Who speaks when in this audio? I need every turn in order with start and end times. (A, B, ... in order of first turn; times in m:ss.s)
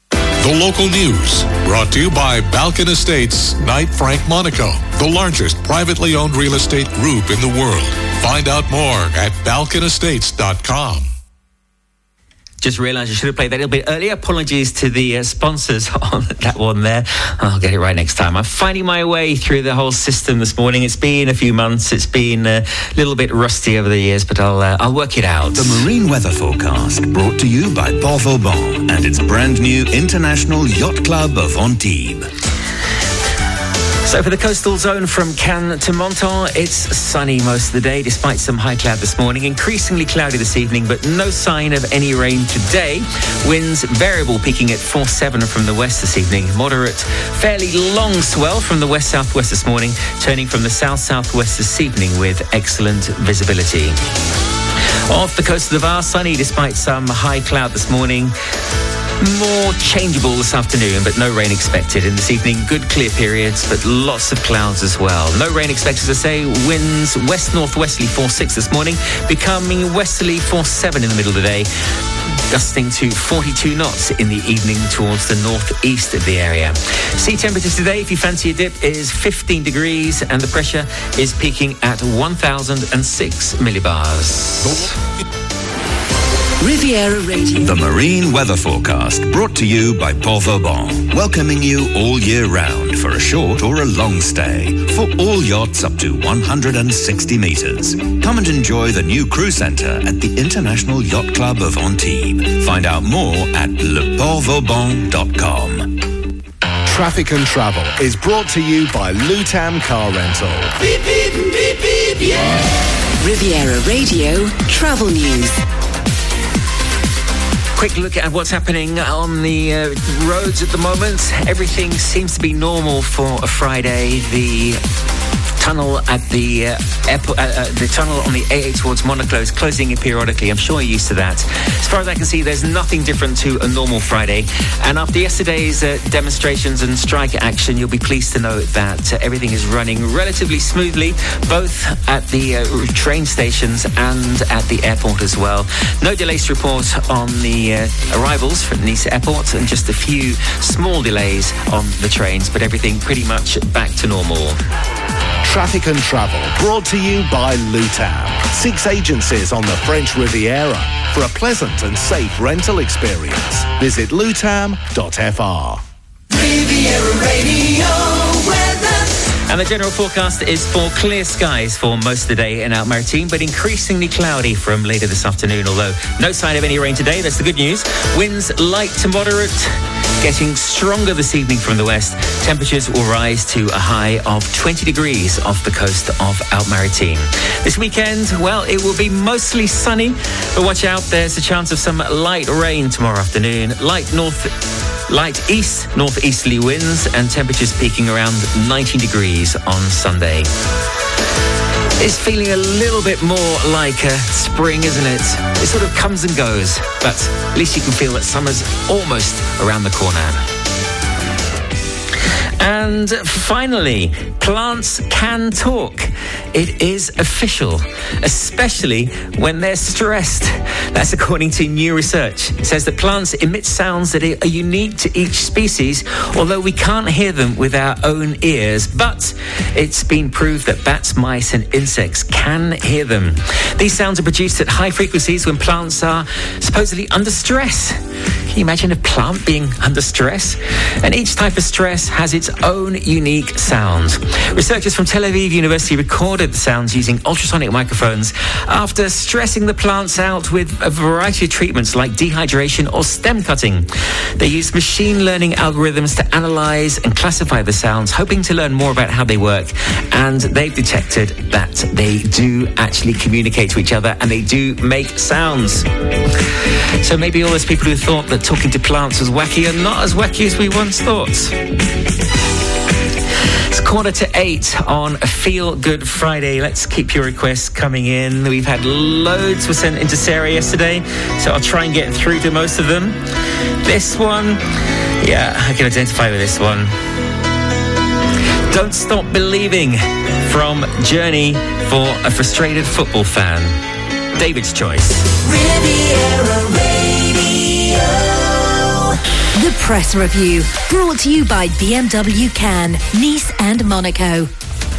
0:00.4-0:11.1 A
0:12.6-0:25.8 B
0:25.5-0:32.3 C
0:34.0-0:54.0 B
0:55.1-0:58.3 B
0:59.2-1:11.7 B
1:12.5-1:24.9 B
1:26.6-1:27.8 D
1:27.6-1:46.0 C
1:46.9-1:50.7 E
1:53.1-1:55.6 D
1:57.8-2:04.8 B
2:05.6-2:34.6 B
2:35.4-2:45.8 E
2:49.2-3:14.5 B
3:15.1-3:20.5 B
3:22.0-3:30.4 B
3:32.6-3:58.0 B
3:58.5-4:25.9 B
4:27.0-4:31.5 B
4:33.7-4:43.2 B
4:43.8-4:44.6 B
4:45.2-4:46.9 B
4:48.7-4:53.7 B
4:54.4-4:55.4 B
4:59.6-5:04.5 F